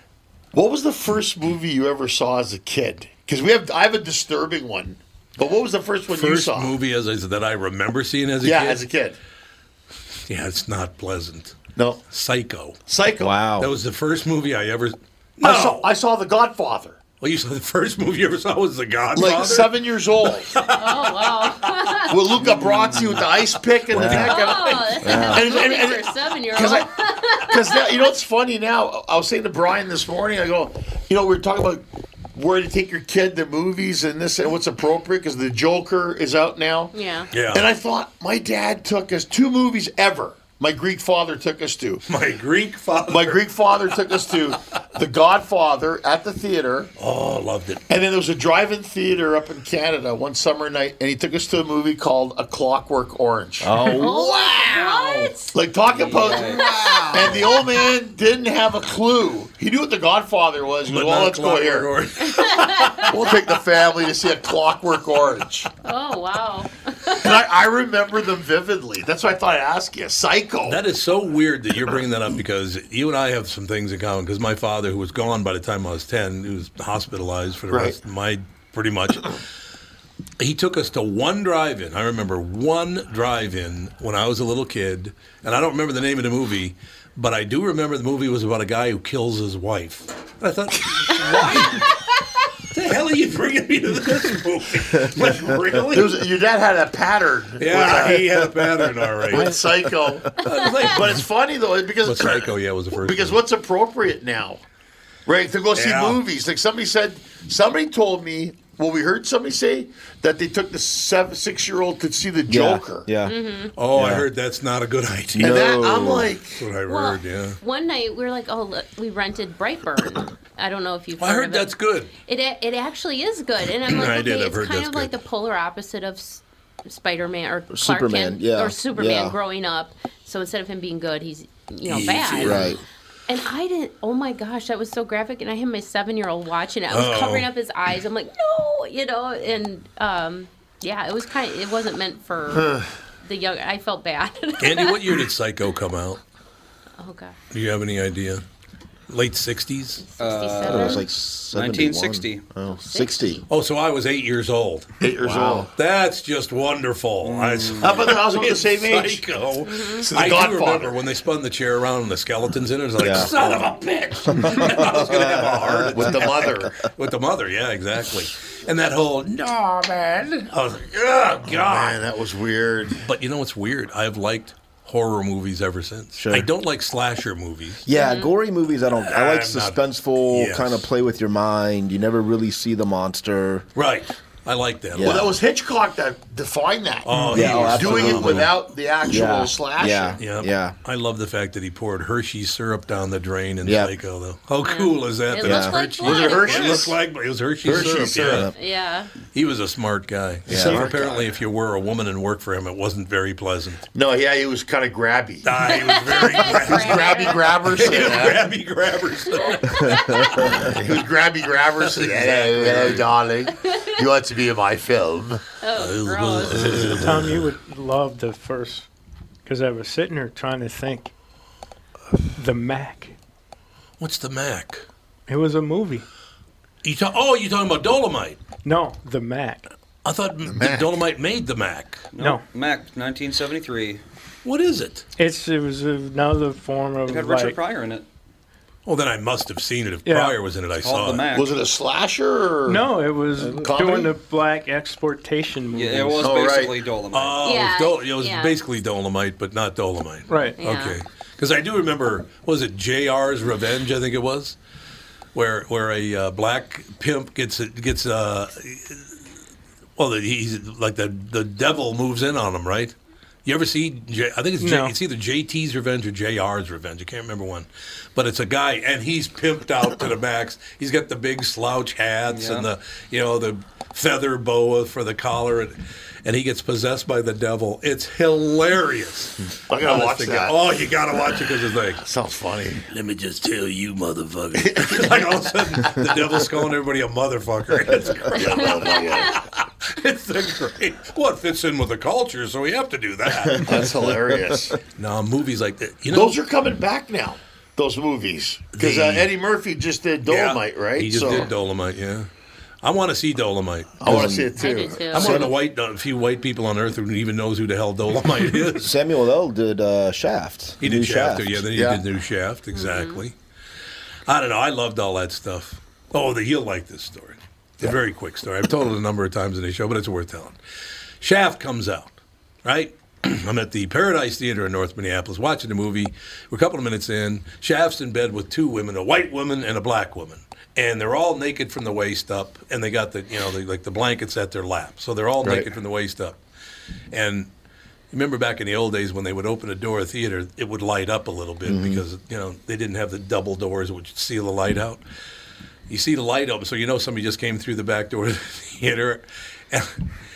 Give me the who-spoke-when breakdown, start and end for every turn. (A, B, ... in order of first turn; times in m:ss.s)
0:00.5-0:06.7 A
0:06.1-0:08.8 B
0:08.4-0:09.2 A
0:10.3-0:11.6 B
0:11.8-0:12.0 A
0:12.1-0:12.8 B
0:12.9-0:13.3 A
0:13.2-0:13.7 C
0:13.6-0:15.9 B
0:15.4-0:17.0 A
0:17.2-0:21.6 B
0:19.2-0:20.5 A
0:20.7-0:22.3 D
0:22.1-0:36.9 A
0:22.5-0:23.1 E
0:23.9-0:24.4 C
0:24.0-0:24.8 B
0:24.3-0:28.0 D
0:25.0-0:25.5 C
0:36.9-0:37.3 D
0:37.3-0:37.7 B
0:37.4-0:42.0 A
0:42.1-0:43.4 B
0:43.1-0:46.9 A
0:47.0-0:47.8 B
0:47.9-0:53.8 A
0:53.6-0:54.4 C
0:53.9-0:55.6 D
0:55.5-1:01.9 A
0:55.9-0:57.2 E
0:56.2-0:57.9 D
1:00.9-1:03.2 B
1:02.2-1:03.2 D
1:03.1-1:05.7 A
1:05.8-1:07.4 D
1:07.1-1:10.8 A
1:10.6-1:19.4 B
1:17.7-1:18.0 A
1:20.4-1:31.9 B
1:31.1-1:31.8 A
1:31.7-1:32.2 D
1:32.7-1:36.3 B
1:35.9-1:38.5 A
1:37.6-1:39.6 B
1:39.3-1:44.6 A
1:39.4-1:39.6 F
1:40.4-1:41.3 B
1:40.4-1:40.7 D
1:42.0-1:43.4 B
1:45.3-1:53.1 A
1:45.8-1:46.2 B
1:52.5-1:54.3 C
1:53.2-1:53.8 D
1:53.8-1:55.6 B
1:55.4-1:56.3 C
1:55.4-1:56.6 A
1:56.6-1:57.6 B
1:56.9-2:12.8 D
2:01.2-2:02.1 B
2:03.8-2:05.2 B
2:07.7-2:09.4 C
2:11.9-2:12.8 B
2:12.4-2:12.8 C
2:13.3-2:25.3 D
2:16.9-2:17.5 B
2:22.5-2:22.9 A
2:24.6-2:26.2 B
2:27.0-2:27.3 D
2:27.5-2:28.4 B
2:29.1-2:30.0 B
2:30.0-2:31.1 D
2:30.2-2:32.4 E
2:30.6-2:33.4 C
2:32.6-2:33.4 D
2:33.5-2:34.9 B
2:35.0-2:35.7 A
2:35.2-2:35.7 C
2:35.8-2:52.0 B
2:37.2-2:38.0 E
2:37.8-2:39.2 A
2:39.7-2:40.0 D
2:40.0-2:41.0 A
2:43.0-2:43.3 C
2:43.1-2:43.7 A
2:44.3-2:46.2 C
2:45.8-2:46.8 A
2:51.6-2:53.0 A
2:53.0-2:57.9 B
2:56.2-2:56.5 C
2:57.9-3:03.7 C
2:57.9-2:58.4 D
2:58.9-3:00.9 B
3:03.8-3:05.3 B
3:05.0-3:05.4 C
3:05.0-3:10.2 A
3:07.1-3:08.6 B
3:07.2-3:10.8 C
3:10.2-3:18.5 B
3:13.6-3:14.0 C
3:14.6-3:16.9 D
3:15.4-3:15.8 C
3:16.0-3:17.0 A
3:17.6-3:18.5 A
3:18.2-3:18.5 C
3:18.5-3:19.1 D
3:19.3-3:23.8 B
3:20.5-3:21.1 C
3:20.5-3:21.2 A
3:23.9-3:25.5 A
3:25.4-3:30.7 B
3:25.6-3:27.6 D
3:26.4-3:28.4 A
3:29.4-3:30.6 D
3:29.9-3:30.2 C
3:30.5-3:35.4 A
3:31.8-3:33.1 B
3:33.6-3:34.0 D
3:35.6-3:36.9 D
3:35.8-3:37.5 B
3:36.7-3:36.9 A
3:36.9-3:38.9 F
3:39.4-3:41.1 F
3:42.3-3:43.2 F
3:44.0-3:44.8 B
3:45.3-3:46.1 F
3:46.8-3:48.4 B
3:48.6-3:49.7 F
3:50.0-3:52.1 B
3:50.5-3:50.9 A
3:52.1-3:54.0 E
3:52.2-3:52.4 F
3:54.4-3:55.0 B
3:55.2-3:57.6 F
3:57.0-3:58.1 E
3:58.9-4:01.3 B
4:00.1-4:00.4 F
4:00.8-4:01.5 E
4:01.4-4:02.8 A
4:02.6-4:06.5 F
4:03.4-4:03.7 C
4:03.6-4:04.1 A
4:05.7-4:07.4 E
4:06.2-4:06.7 A
4:07.1-4:14.6 B
4:07.4-4:08.6 D
4:10.3-4:10.6 F
4:10.6-4:11.0 D
4:15.3-4:19.2 B
4:20.0-4:42.0 B
4:24.6-4:25.0 F
4:32.3-4:32.7 E
4:39.7-4:40.6 A
4:42.0-4:42.8 A
4:42.9-4:53.8 B
4:44.6-4:46.0 A
4:48.3-4:49.4 A
4:48.4-4:49.3 D
4:53.6-4:54.5 C
4:53.6-4:54.8 A
4:55.0-4:56.4 B
4:56.1-5:01.5 A
4:58.8-4:59.3 B
5:00.3-5:02.3 B
5:02.8-5:04.1 B
5:04.0-5:05.2 A
5:04.1-5:04.6 C
5:04.6-5:05.5 D
5:05.1-5:08.9 B
5:05.1-5:05.5 C
5:08.8-5:11.7 C
5:10.8-5:13.4 B
5:11.7-5:12.0 A
5:12.7-5:13.2 D
5:14.3-5:20.6 B
5:21.2-5:36.4 B
5:37.1-5:37.5 B
5:38.1-5:45.0 B
5:41.6-5:42.0 C
5:45.9-5:50.0 B